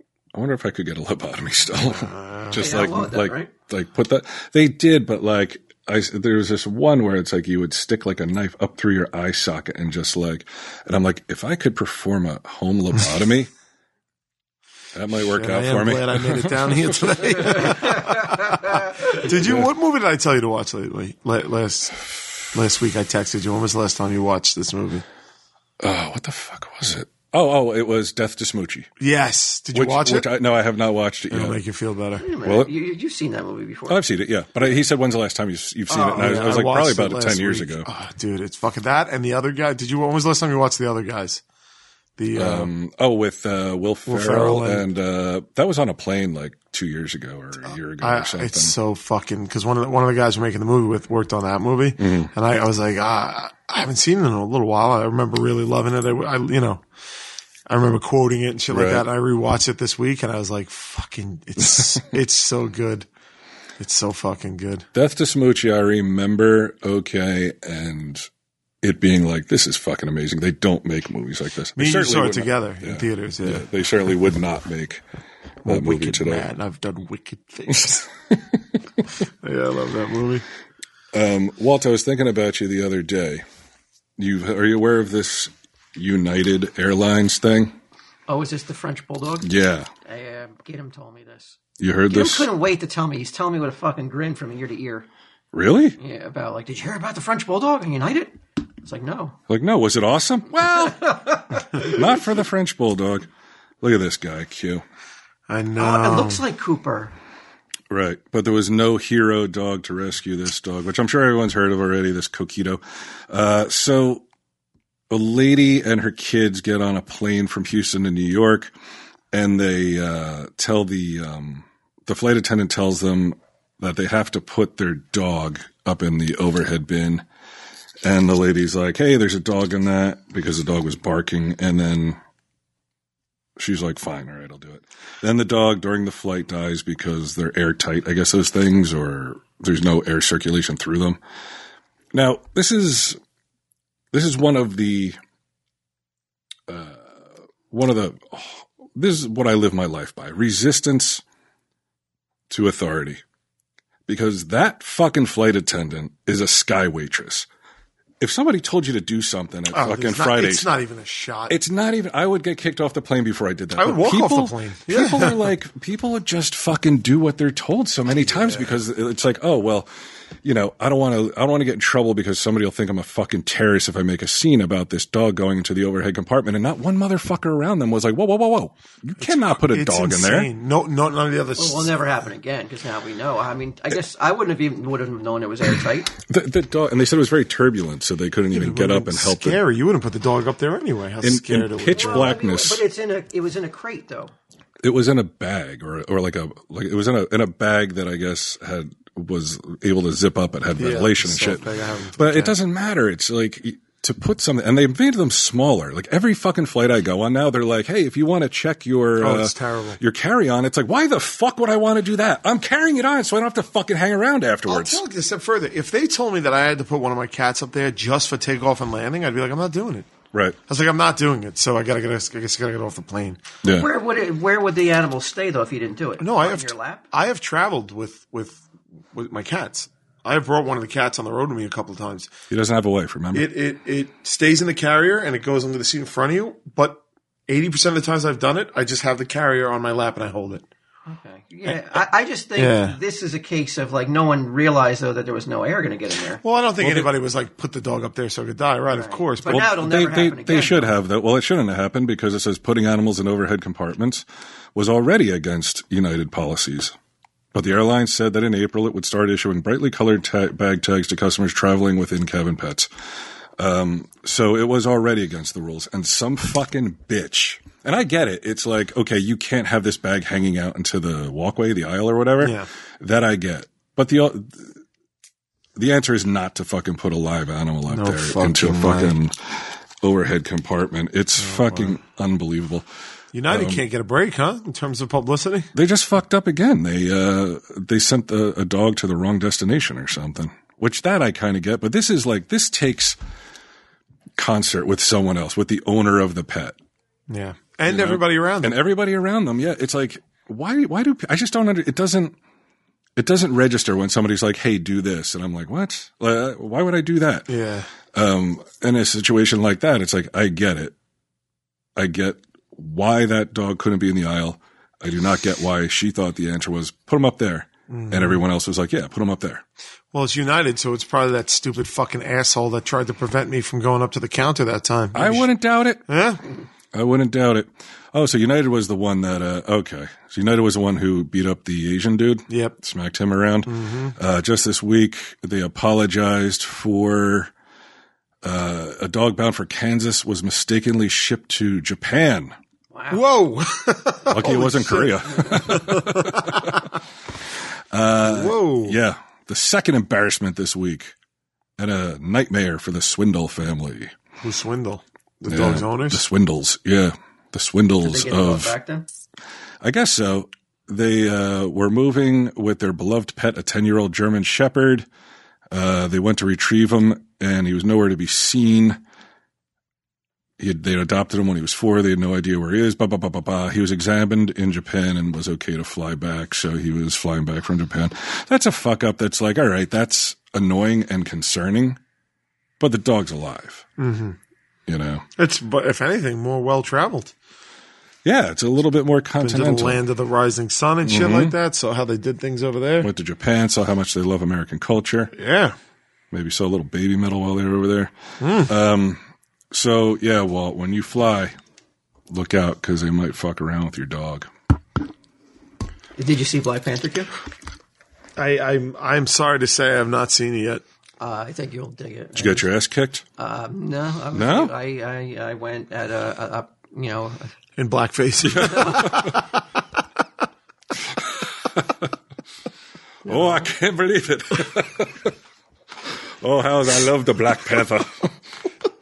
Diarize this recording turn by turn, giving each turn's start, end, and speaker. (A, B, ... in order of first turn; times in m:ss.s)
0:00.3-0:13.5 A
0:01.9-0:02.9 B
0:02.6-0:03.5 C
0:15.0-0:17.1 A
0:15.3-0:25.0 B
0:19.2-0:19.7 A
0:25.8-0:28.9 A
0:29.0-0:30.3 B
0:29.7-0:31.6 A
0:31.3-0:32.2 B
0:32.2-0:34.0 C
0:32.4-0:32.7 A
0:33.9-0:37.9 A
0:35.9-0:41.4 B
0:36.0-0:36.2 C
0:42.2-0:42.7 B
0:42.4-0:48.7 A
0:44.1-0:44.9 B
0:48.0-0:56.8 B
0:52.0-0:52.3 A
0:57.7-1:03.1 B
0:58.7-0:59.1 A
1:01.6-1:02.0 A
1:03.8-1:04.9 B
1:05.0-1:08.3 A
1:08.8-1:15.0 A
1:11.8-1:13.7 B
1:15.6-1:18.1 B
1:15.7-1:16.5 A
1:19.4-1:20.4 B
1:21.1-1:23.4 A
1:24.2-1:27.8 A
1:28.3-1:29.5 C
1:29.4-1:29.9 A
1:30.0-1:35.1 C
1:31.8-1:32.5 A
1:35.5-1:36.0 A
1:36.0-1:39.4 C
1:39.5-1:41.2 A
1:40.6-1:42.0 C
1:41.7-1:43.3 A
1:43.8-1:44.8 A
1:45.5-1:46.4 B
1:45.8-1:47.1 C
1:47.9-1:54.2 A
1:55.1-1:58.7 A
1:59.3-2:07.2 A
2:08.0-2:12.2 A
2:13.6-2:21.2 A
2:22.1-2:23.2 A
2:24.1-2:25.2 A
2:26.7-2:31.2 A
2:32.5-2:33.2 A
2:34.1-2:37.5 A
2:38.2-2:40.7 A
2:39.7-2:41.6 B
2:41.5-2:49.9 A
2:43.8-2:45.5 B
2:48.3-2:48.7 B
2:50.4-3:00.5 A
2:59.2-3:02.0 B
3:01.6-3:06.1 C
3:06.2-3:09.6 A
3:08.5-3:12.4 B
3:11.2-3:12.8 A
3:11.9-3:14.3 C
3:14.8-3:35.0 A
3:20.8-3:22.6 B
3:29.2-3:30.0 B
3:34.7-3:40.1 B
3:40.7-3:43.4 B
3:43.7-3:47.0 C
3:46.2-3:52.3 B
3:52.5-3:53.5 A
3:53.3-4:00.7 B
4:01.1-4:06.4 C
4:02.6-4:03.0 B
4:06.4-4:09.7 B
4:06.8-4:07.1 A
4:08.9-4:10.9 C
4:09.5-4:16.9 A
4:17.5-4:22.9 A
4:23.6-4:34.8 A
4:32.4-4:32.7 B
4:35.8-4:42.9 A
4:37.9-4:39.2 B
4:41.4-4:42.0 B
4:43.3-4:45.7 B
4:43.5-4:43.8 A
4:45.8-4:53.2 A
4:54.4-4:56.8 A
4:57.3-4:58.8 B
4:57.9-5:02.4 A
5:03.2-5:07.5 A
5:07.5-5:07.9 B
5:08.1-5:10.9 A
5:12.0-5:19.6 A
5:17.9-5:18.4 B
5:20.1-5:25.5 B
5:25.1-5:26.1 A
5:26.1-5:26.4 B
5:26.9-5:37.5 A
5:32.5-5:32.8 B
5:33.7-5:34.2 B
5:38.4-5:42.6 A
5:42.9-5:43.2 C
5:43.1-5:46.8 B
5:44.3-5:46.9 A
5:47.9-5:51.1 A
5:48.2-5:49.0 B
5:51.8-5:54.1 A
5:54.4-5:56.2 B
5:55.5-5:58.8 A
5:58.0-5:59.1 C
5:59.8-6:05.1 A
6:05.7-6:09.0 A
6:10.6-6:22.0 A
6:22.8-6:23.9 A
6:24.0-6:24.4 B
6:24.9-6:25.2 A
6:25.4-6:27.3 B
6:28.2-6:30.0 A
6:29.4-6:33.1 B
6:31.0-6:31.6 A
6:33.0-6:35.3 A
6:35.3-6:35.8 B
6:36.3-6:39.2 A
6:38.4-6:38.7 B
6:39.7-6:41.5 A
6:42.3-6:44.5 A
6:46.2-6:47.3 C
6:48.4-6:50.8 B
6:51.2-6:52.7 C
6:52.4-6:53.2 A
6:53.4-6:57.5 C
6:54.3-6:54.7 A
6:57.8-6:59.5 B
6:58.8-6:59.1 A
7:01.4-7:02.0 A
7:03.3-7:05.3 A
7:06.4-7:08.3 A